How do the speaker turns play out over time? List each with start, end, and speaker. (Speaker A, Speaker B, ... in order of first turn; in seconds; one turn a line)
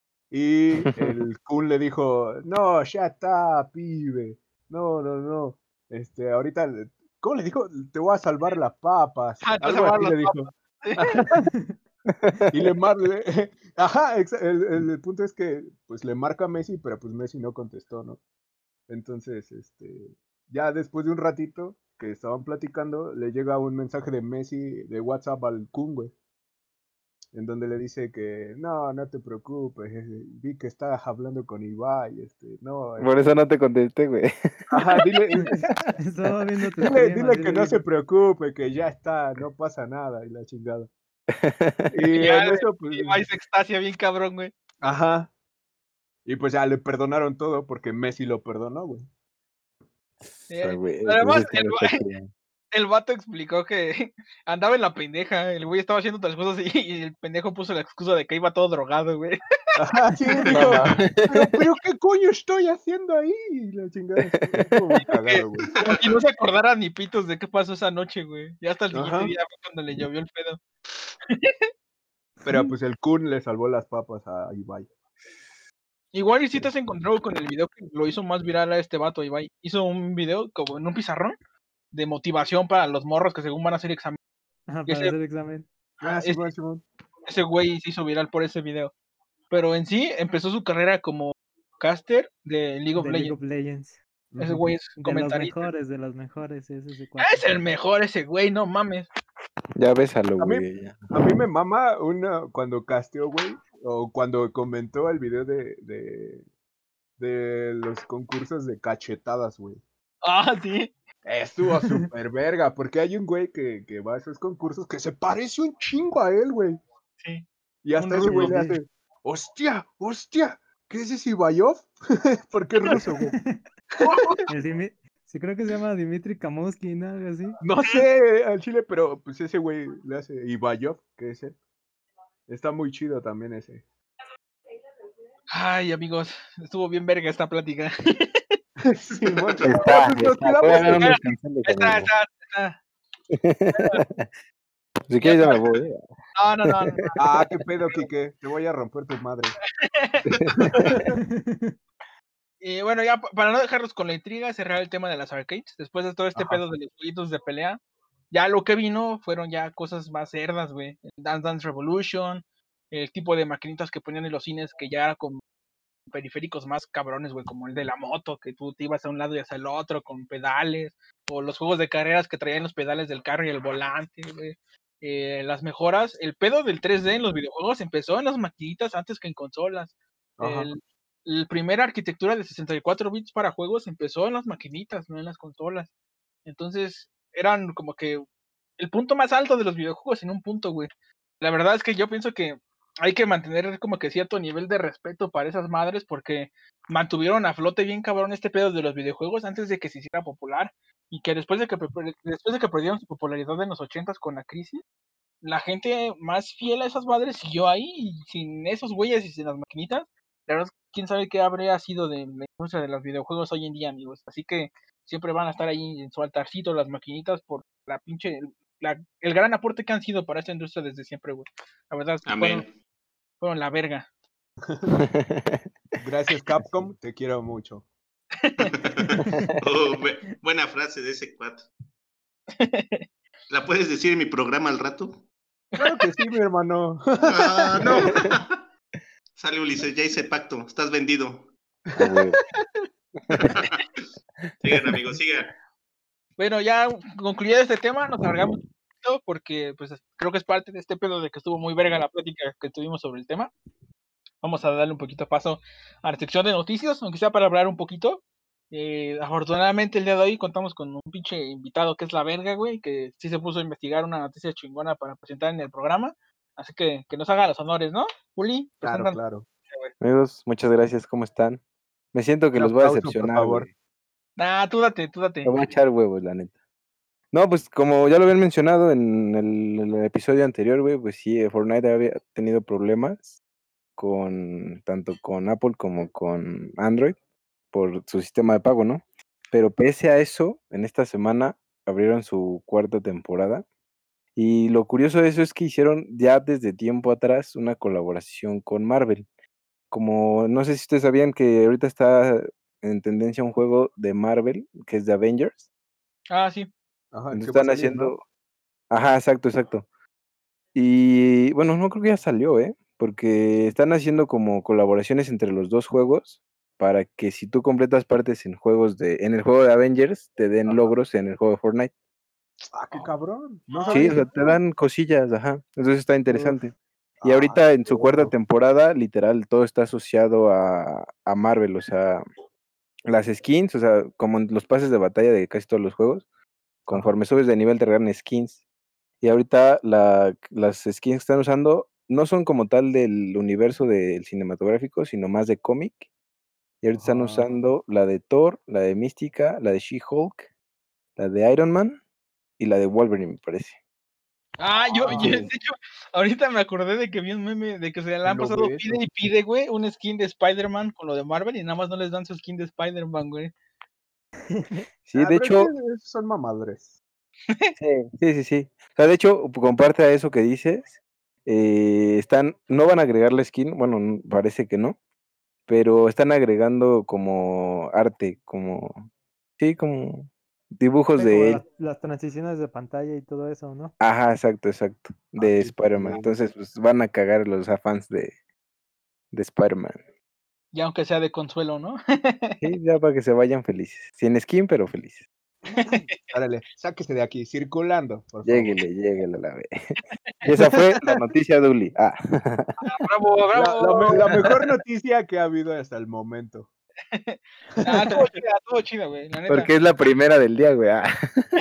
Speaker A: 0.3-11.4
Speaker B: 0.8-1.2
Speaker C: 9.4-11.1
Speaker D: 11.1-11.8
Speaker B: 12.1-12.7
Speaker A: 12.5-18.2
Speaker A: 18.9-26.1
Speaker A: 27.3-33.1
Speaker B: 33.0-35.0
Speaker A: 34.7-35.7
Speaker D: 35.4-37.8
Speaker A: 36.7-40.9
Speaker B: 41.4-41.9
Speaker A: 41.9-43.2
Speaker C: 42.1-44.5
Speaker A: 44.8-45.3
Speaker A: 46.2-49.0
Speaker C: 50.5-52.0
Speaker B: 50.5-52.3
Speaker C: 52.7-59.4
Speaker A: 59.8-65.7
Speaker C: 60.4-60.7
Speaker B: 60.5-61.6
Speaker C: 65.3-70.6
Speaker A: 68.9-69.3
Speaker C: 71.3-71.7
Speaker D: 72.4-72.7
Speaker A: 72.4-74.9
Speaker C: 76.1-81.3
Speaker C: 81.9-84.2
Speaker D: 84.7-85.7
Speaker C: 84.9-85.2
Speaker A: 86.0-86.8
Speaker C: 86.0-86.4
Speaker C: 87.3-88.9
Speaker C: 89.5-93.3
Speaker D: 92.9-94.0
Speaker A: 94.3-94.7
Speaker C: 94.4-95.7
Speaker D: 95.0-97.5
Speaker C: 97.2-99.1
Speaker B: 99.8-101.3
Speaker A: 100.4-106.5
Speaker A: 107.2-109.8
Speaker C: 110.2-110.9
Speaker A: 111.2-116.8
Speaker C: 117.2-118.6
Speaker A: 117.8-123.3
Speaker D: 118.2-118.8
Speaker D: 122.9-123.7
Speaker C: 124.0-124.4
Speaker A: 124.0-124.4
Speaker D: 124.5-127.6
Speaker A: 127.6-131.6
Speaker A: 132.5-133.8
Speaker C: 135.5-138.6
Speaker A: 138.8-141.1
Speaker E: 139.2-139.8
Speaker B: 139.6-142.1
Speaker C: 140.7-142.8
Speaker B: 143.3-144.3
Speaker C: 143.7-144.0
Speaker B: 145.1-146.0
Speaker C: 145.2-145.8
Speaker C: 146.3-148.1
Speaker B: 146.6-147.1
Speaker A: 147.2-149.6
Speaker C: 149.8-150.8
Speaker B: 150.4-150.9
Speaker A: 150.6-151.1
Speaker D: 151.1-151.7
Speaker C: 152.6-157.8
Speaker A: 156.3-156.6
Speaker C: 158.3-165.4
Speaker C: 166.1-185.9
Speaker A: 180.4-180.7
Speaker C: 186.4-188.2
Speaker C: 188.8-190.9
Speaker C: 191.4-204.8
Speaker C: 205.4-222.7
Speaker E: 222.3-222.7
Speaker C: 223.4-224.1
Speaker A: 224.7-225.0
Speaker B: 225.1-225.6
Speaker A: 226.0-227.8
Speaker C: 228.4-228.7
Speaker E: 228.7-231.7
Speaker B: 229.2-229.6
Speaker C: 232.5-233.1
Speaker E: 233.5-235.2
Speaker C: 235.7-236.1
Speaker A: 235.8-238.1
Speaker E: 237.3-238.6
Speaker E: 239.3-241.5
Speaker B: 241.9-242.4
Speaker E: 243.3-243.8
Speaker E: 244.6-245.5
Speaker B: 244.7-245.0
Speaker C: 246.4-253.5
Speaker C: 254.4-269.2
Speaker A: 268.8-269.4
Speaker B: 270.0-271.6
Speaker B: 272.1-273.7
Speaker A: 272.5-273.7
Speaker C: 274.4-275.6
Speaker B: 275.4-276.5
Speaker B: 277.3-283.4
Speaker B: 284.0-287.1
Speaker B: 287.7-293.6
Speaker B: 294.4-299.3
Speaker B: 299.9-305.6
Speaker C: 306.3-306.7
Speaker A: 307.1-308.1
Speaker B: 307.3-308.2
Speaker B: 308.9-309.8
Speaker B: 310.7-321.9
Speaker A: 320.6-320.9
Speaker A: 322.7-324.3
Speaker C: 323.7-324.5
Speaker B: 323.9-332.2
Speaker A: 326.3-326.6
Speaker A: 327.2-328.3
Speaker B: 333.1-336.2
Speaker B: 336.9-338.6
Speaker B: 339.2-346.1
Speaker B: 346.8-350.5
Speaker A: 346.9-347.5
Speaker B: 351.2-352.0
Speaker B: 352.6-353.8
Speaker C: 354.6-363.5
Speaker A: 354.9-355.5
Speaker B: 355.1-355.5
Speaker A: 358.2-359.0
Speaker D: 364.5-364.9
Speaker B: 365.1-365.7
Speaker A: 365.1-366.9
Speaker B: 367.8-374.9
Speaker B: 375.7-379.1
Speaker B: 379.6-381.6
Speaker D: 381.1-383.9
Speaker B: 384.0-388.3
Speaker A: 385.4-386.3
Speaker B: 389.3-390.0
Speaker C: 390.7-392.6
Speaker B: 392.6-395.2
Speaker A: 395.7-398.8
Speaker C: 395.8-396.2
Speaker B: 398.4-402.7
Speaker C: 402.8-404.6
Speaker A: 403.5-406.7
Speaker C: 407.1-409.7
Speaker B: 409.5-411.4